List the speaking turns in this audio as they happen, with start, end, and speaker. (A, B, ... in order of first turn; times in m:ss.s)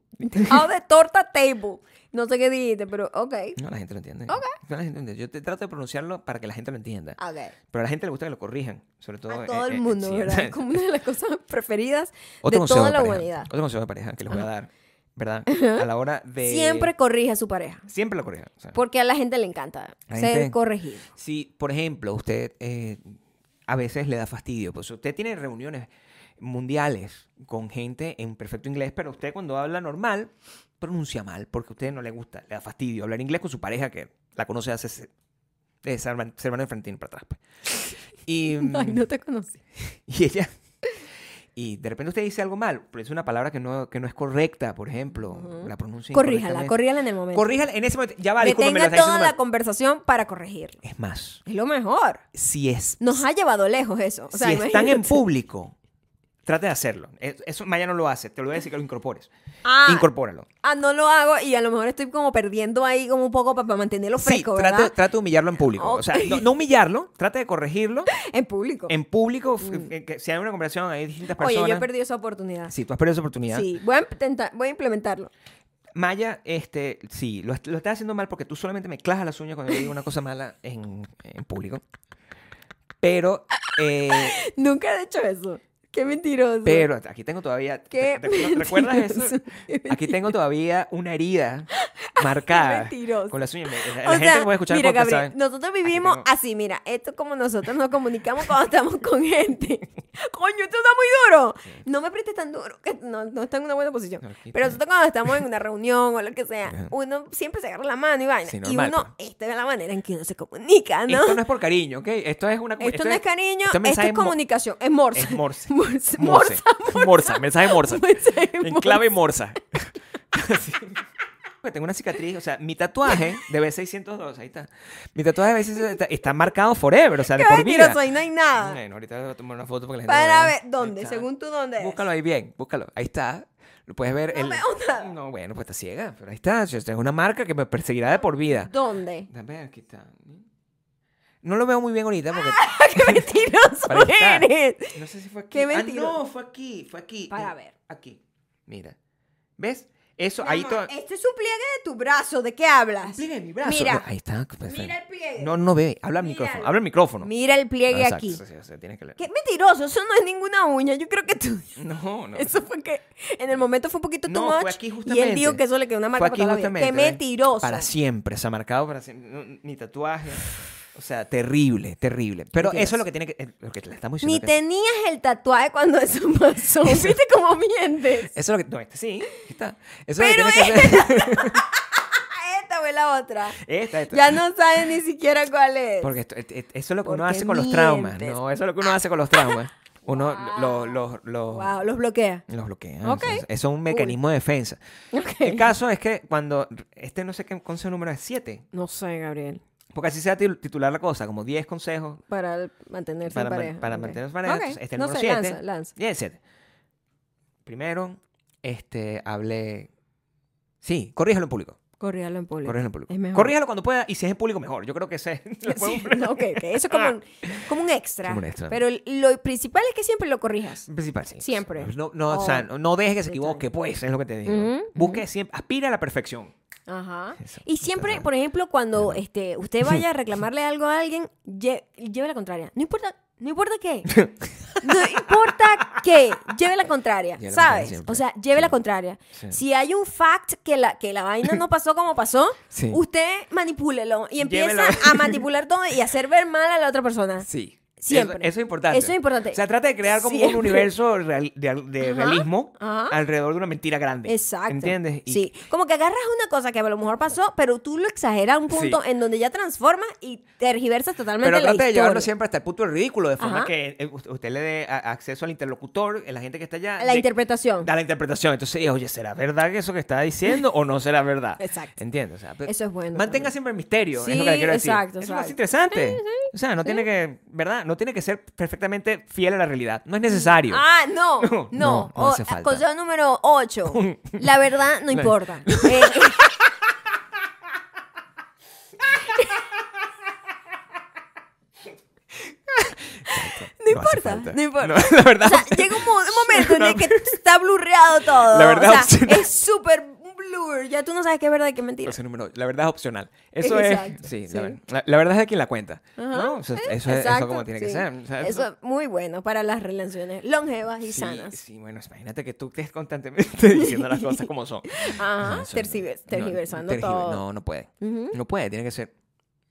0:00.2-0:00.6 A
0:00.2-0:03.6 B
0:03.6-0:10.8 A
0:04.3-0:04.6 B
0:07.2-0:07.5 B
0:09.3-0:13.5 B
0:12.4-0:16.9 A
0:15.5-0:15.9 B
0:16.4-0:17.9 B
0:17.9-0:18.8 A
0:18.7-0:21.1 B
0:20.1-0:20.6 A
0:21.1-0:35.1 A
0:35.8-0:39.0 A
0:38.4-0:39.5 B
0:39.8-0:40.5 A
0:41.5-0:46.8 A
0:45.3-0:47.5 B
0:47.3-0:49.4 A
0:48.4-0:50.8 B
0:50.8-0:51.4 A
0:51.4-0:52.2 B
0:52.3-0:53.2 A
0:53.0-0:55.2 B
0:54.3-0:55.7 A
0:56.4-0:59.3 A
0:59.6-1:00.1 B
0:59.8-1:00.5 A
1:00.6-1:04.9 B
1:04.2-1:08.1 A
1:05.7-1:06.4 B
1:08.1-1:08.9 B
1:08.9-1:11.9 A
1:09.6-1:09.9 B
1:11.3-1:12.7 B
1:12.7-1:13.7 A
1:13.5-1:15.3 B
1:15.9-1:21.8 A
1:23.0-1:24.4 A
1:24.0-1:26.9 B
1:26.6-1:36.2 A
1:27.9-1:30.3 B
1:31.7-1:51.4 B
1:44.2-1:44.8 A
1:48.4-1:49.1 A
1:51.1-1:54.4 A
1:52.8-1:59.1 B
1:55.1-2:01.0 A
2:01.6-2:08.0 A
2:07.2-2:08.8 B
2:08.6-2:11.3 A
2:10.1-2:12.0 B
2:11.8-2:18.7 A
2:14.3-2:15.1 B
2:18.7-2:19.3 B
2:19.3-2:20.4 A
2:21.4-2:23.3 A
2:22.3-2:25.0 B
2:23.8-2:29.0 A
2:25.5-2:26.2 B
2:27.3-2:27.7 B
2:29.6-2:30.9 A
2:30.4-2:34.0 B
2:33.0-2:37.3 A
2:34.6-2:35.6 B
2:36.2-2:38.4 B
2:37.9-2:39.2 A
2:39.2-2:41.8 B
2:41.8-2:42.6 A
2:42.3-2:47.9 B
2:44.2-2:45.6 A
2:46.1-2:54.5 A
2:52.6-2:53.0 B
2:54.2-2:58.3 B
2:56.8-2:57.2 A
2:58.2-3:01.6 A
3:00.2-3:06.1 B
3:03.5-3:04.4 A
3:06.0-3:11.8 A
3:07.0-3:08.4 B
3:09.3-3:12.4 B
3:12.5-3:14.8 A
3:13.0-3:14.2 B
3:15.1-3:15.7 B
3:15.4-3:18.6 A
3:18.7-3:19.6 B
3:19.9-3:22.2 A
3:22.3-3:25.9 B
3:23.2-3:26.4 A
3:27.6-3:29.9 A
3:30.8-3:31.8 A
3:32.0-3:33.5 B
3:32.6-3:37.7 A
3:35.6-3:40.9 B
3:38.2-3:38.8 A
3:40.9-3:46.5 A
3:41.4-3:42.7 B
3:43.3-3:43.6 B
3:44.4-3:45.2 B
3:46.9-3:54.1 B
3:47.4-3:48.3 A
3:48.9-3:49.2 A
3:54.1-3:56.0 A
3:54.8-4:07.5 B
3:57.4-3:58.7 A
4:02.7-4:03.0 A
4:04.4-4:05.4 A
4:07.4-4:15.5 A
4:08.0-4:10.9 B
4:12.0-4:13.2 B
4:14.2-4:22.3 B
4:18.7-4:19.0 A
4:21.4-4:27.3 A
4:23.4-4:23.7 B
4:27.0-4:27.9 B
4:27.8-4:40.8 A
4:31.6-4:32.0 B
4:32.6-4:33.5 B
4:34.2-4:37.0 B
4:40.3-4:46.5 B
4:41.4-4:42.8 A
4:43.9-4:44.4 A
4:45.1-4:46.7 A
4:49.1-4:49.6 B
4:52.7-4:57.4 A
4:53.3-5:02.2 B
4:58.2-4:59.5 A
5:02.0-5:08.7 A
5:03.6-5:04.8 B
5:06.2-5:11.6 B
5:11.0-5:19.1 A
5:13.7-5:17.4 B
5:18.0-5:18.4 B